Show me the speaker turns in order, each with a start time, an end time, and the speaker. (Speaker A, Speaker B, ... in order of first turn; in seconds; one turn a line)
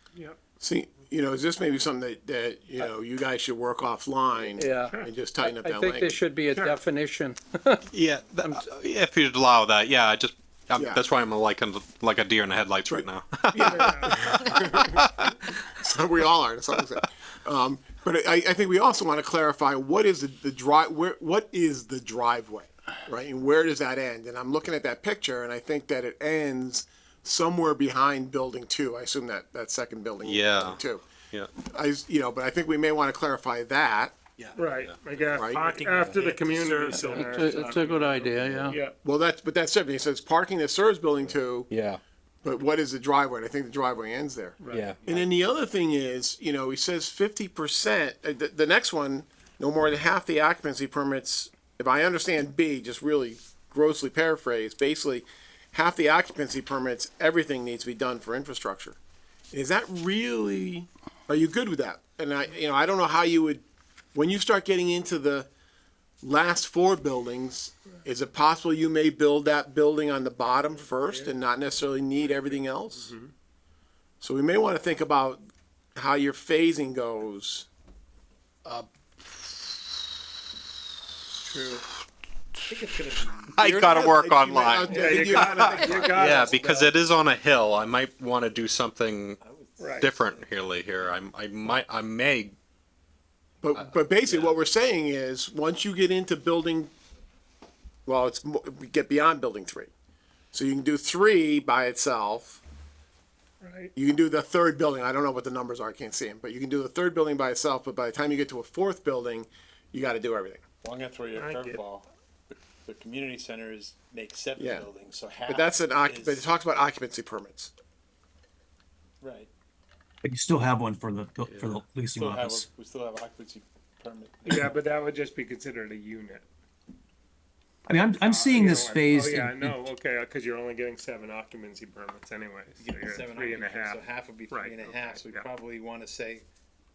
Speaker A: 0.6-6.2
Speaker B: 4.5-7.8
Speaker C: 4.9-5.1
Speaker C: 6.5-6.8
Speaker D: 7.9-15.2
Speaker A: 10.7-11.0
Speaker A: 12.9-31.1
Speaker C: 13.7-14.4
Speaker D: 30.2-31.5
Speaker A: 31.6-34.2
Speaker C: 34.5-39.0
Speaker E: 35.1-37.8
Speaker A: 35.3-35.6
Speaker D: 35.9-36.2
Speaker B: 37.1-38.8
Speaker A: 39.0-41.7
Speaker D: 41.2-42.0
Speaker A: 42.4-59.0
Speaker C: 44.6-44.9
Speaker D: 44.7-45.0
Speaker E: 45.0-45.3
Speaker A: 59.5-65.5
Speaker A: 66.2-73.1
Speaker C: 70.7-71.3
Speaker C: 72.2-73.3
Speaker A: 74.2-75.4
Speaker A: 75.9-77.7
Speaker E: 81.4-81.8
Speaker E: 82.7-83.6
Speaker D: 83.5-89.4
Speaker A: 83.6-86.0
Speaker E: 84.8-86.9
Speaker C: 84.9-86.9
Speaker E: 89.4-91.1
Speaker C: 89.8-90.1
Speaker D: 90.0-92.5
Speaker A: 93.6-96.9
Speaker D: 93.7-94.5
Speaker A: 98.0-99.9
Speaker A: 100.5-102.6
Speaker C: 103.6-103.9
Speaker A: 104.0-110.6
Speaker E: 110.8-116.5
Speaker C: 111.3-111.8
Speaker A: 114.6-114.9
Speaker A: 115.5-117.7
Speaker E: 119.2-119.5
Speaker F: 120.2-122.7
Speaker D: 121.5-121.8
Speaker E: 122.2-124.7
Speaker C: 124.5-126.5
Speaker F: 127.8-129.8
Speaker C: 128.1-135.5
Speaker E: 132.8-136.4